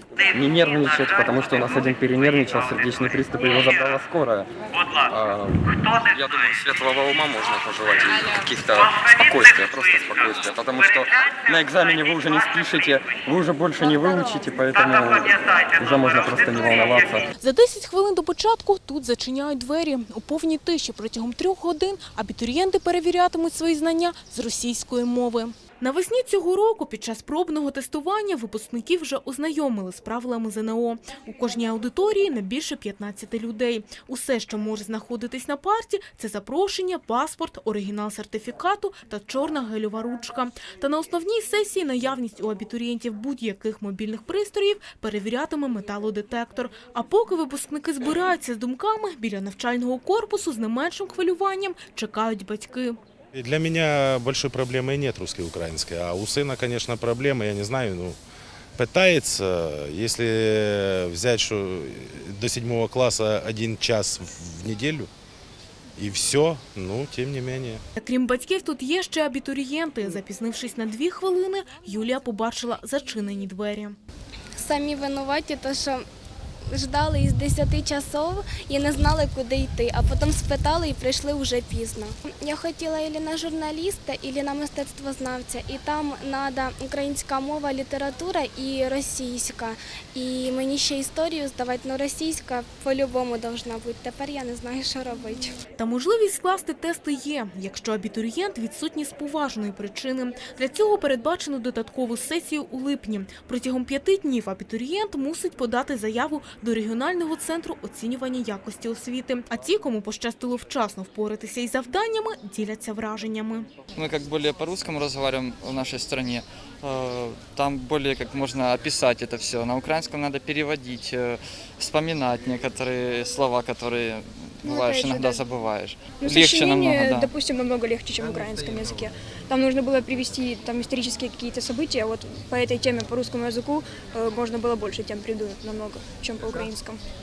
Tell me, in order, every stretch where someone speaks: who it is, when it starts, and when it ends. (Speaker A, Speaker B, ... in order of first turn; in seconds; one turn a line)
Speaker A: 0.4-4.5
Speaker A: 5.1-5.6
Speaker A: 6.1-17.2
Speaker B: 17.4-53.0
Speaker C: 53.3-58.2
Speaker C: 58.8-65.1
Speaker C: 66.0-67.8
Speaker B: 68.0-74.0
Speaker D: 74.6-76.0
Speaker D: 76.7-95.6
Speaker B: 95.8-113.7
Speaker E: 114.0-127.3
Speaker F: 124.6-125.4
Speaker F: 126.2-137.0